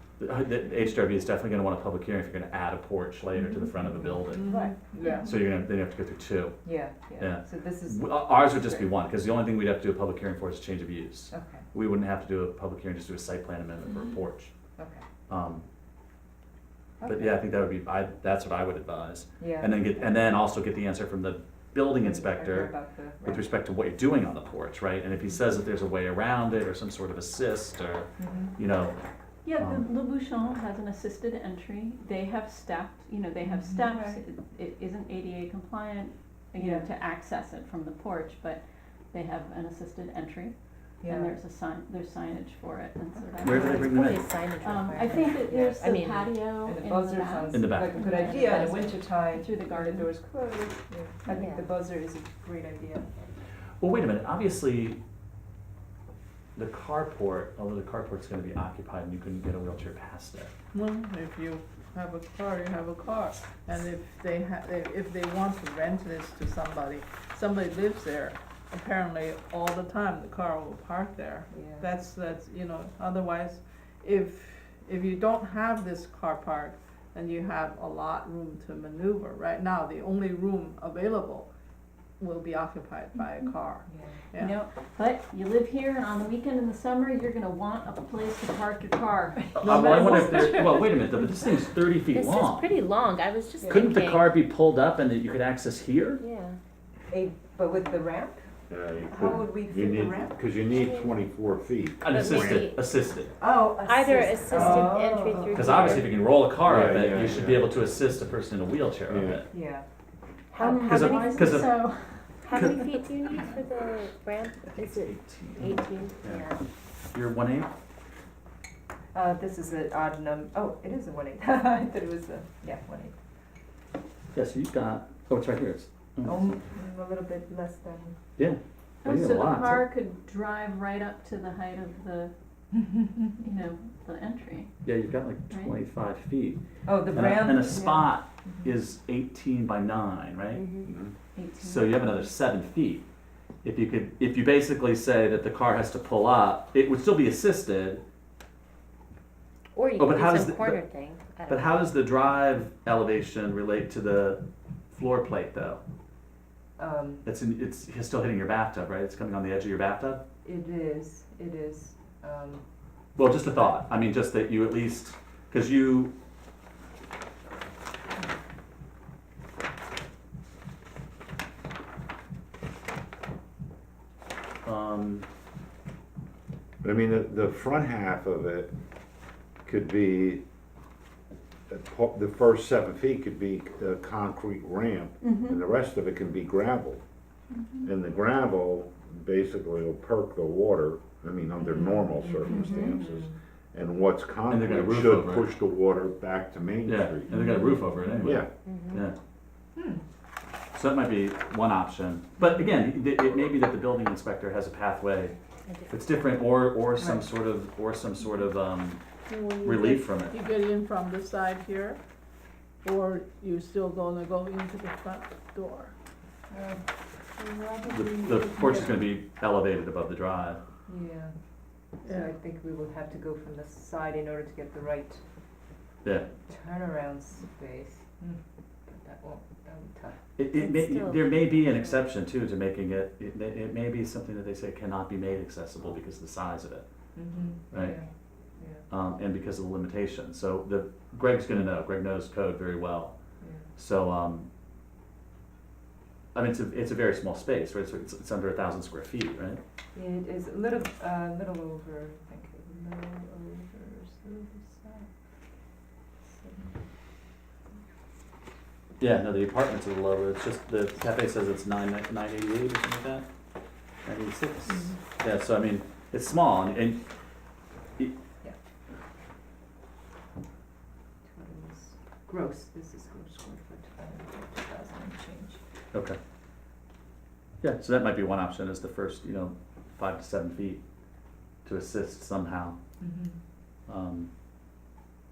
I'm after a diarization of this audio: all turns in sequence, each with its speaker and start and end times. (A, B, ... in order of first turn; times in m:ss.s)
0:00.2-0:04.5 A
0:03.6-0:04.9 B
0:04.3-0:05.4 C
0:05.3-0:06.6 A
0:06.6-0:08.9 B
0:07.2-0:14.5 A
0:11.3-0:11.7 B
0:14.8-0:15.0 B
0:15.3-0:15.6 A
0:17.0-0:17.4 B
0:17.1-0:29.0 A
0:19.4-0:20.1 B
0:22.0-0:23.5 B
0:28.2-0:28.6 B
0:29.4-0:44.1 D
0:29.6-0:29.8 A
0:33.4-0:34.2 B
0:36.6-0:36.9 B
0:41.0-0:41.3 B
0:43.2-0:43.4 B
0:43.4-0:44.3 A
0:43.4-0:46.5 E
0:44.6-0:50.1 D
0:45.3-0:45.8 B
0:46.6-0:53.3 B
0:47.5-0:47.9 A
0:51.3-0:51.7 E
0:53.8-0:55.0 A
0:56.6-1:00.5 A
1:00.7-1:21.5 C
1:11.5-1:11.9 B
1:22.2-1:24.6 C
1:23.9-1:24.2 B
1:24.4-1:30.7 D
1:29.4-1:31.0 B
1:29.6-1:32.7 A
1:29.7-1:30.5 C
1:32.1-1:34.4 E
1:33.7-1:36.2 A
1:36.2-1:36.6 E
1:37.1-1:38.5 B
1:38.7-1:42.7 F
1:39.1-1:40.4 B
1:40.7-1:41.2 E
1:42.0-1:43.3 A
1:42.1-1:42.8 E
1:43.4-1:45.7 B
1:43.8-1:46.1 E
1:44.5-1:44.9 F
1:45.6-1:49.5 A
1:45.6-1:46.1 F
1:46.6-1:47.7 F
1:49.1-1:49.4 F
1:49.5-1:49.9 B
1:50.5-1:51.7 E
1:50.6-1:53.0 D
1:50.8-1:51.8 A
1:52.4-1:56.6 E
1:54.8-1:56.5 A
1:57.1-1:57.7 A
1:59.1-2:03.2 B
2:04.3-2:06.6 A
2:06.2-2:08.2 B
2:08.4-2:09.9 A
2:09.0-2:12.3 D
2:12.8-2:13.3 B
2:13.4-2:14.7 D
2:14.8-2:20.6 A
2:15.5-2:15.8 D
2:16.9-2:18.7 B
2:17.6-2:18.1 D
2:20.5-2:20.9 E
2:20.8-2:21.1 F
2:21.4-2:22.3 D
2:21.6-2:23.0 A
2:23.6-2:28.0 A
2:29.7-2:31.9 E
2:30.0-2:30.8 A
2:31.5-2:35.8 A
2:36.8-2:37.3 B
2:37.2-2:40.2 A
2:40.4-2:42.6 B
2:43.2-2:46.1 A
2:54.6-2:55.3 A
2:56.8-2:58.7 F
2:59.6-3:00.4 F
3:01.7-3:07.0 F
3:05.2-3:05.6 D
3:07.8-3:17.5 F
3:11.6-3:13.3 B
3:12.5-3:12.9 D
3:14.5-3:15.5 A
3:16.9-3:19.2 A
3:17.3-3:18.1 D
3:18.2-3:18.5 F
3:18.6-3:19.0 E
3:19.8-3:20.0 B
3:20.7-3:25.4 A
3:25.7-3:25.9 E
3:25.9-3:29.0 A
3:27.0-3:27.3 B
3:29.3-3:32.0 C
3:29.6-3:30.4 A
3:32.8-3:35.9 C
3:36.5-3:39.0 B
3:37.9-3:40.6 A
3:40.9-3:41.3 B
3:42.0-3:42.3 C
3:42.1-3:45.2 B
3:46.0-3:46.3 A
3:46.4-3:50.2 B
3:50.4-3:56.8 A
3:50.6-3:52.0 E
3:57.2-3:58.1 B
3:57.7-3:58.0 A
3:58.9-4:03.2 A
4:03.4-4:03.7 B
4:03.8-4:04.5 A
4:06.3-4:09.6 A
4:09.9-4:15.1 B
4:16.4-4:16.7 B
4:19.0-4:23.3 A
4:24.0-4:27.0 A
4:31.3-4:35.6 B
4:35.9-4:36.2 A
4:37.6-4:40.8 A
4:41.6-4:42.8 A
4:43.0-4:43.4 B
4:43.9-4:44.3 A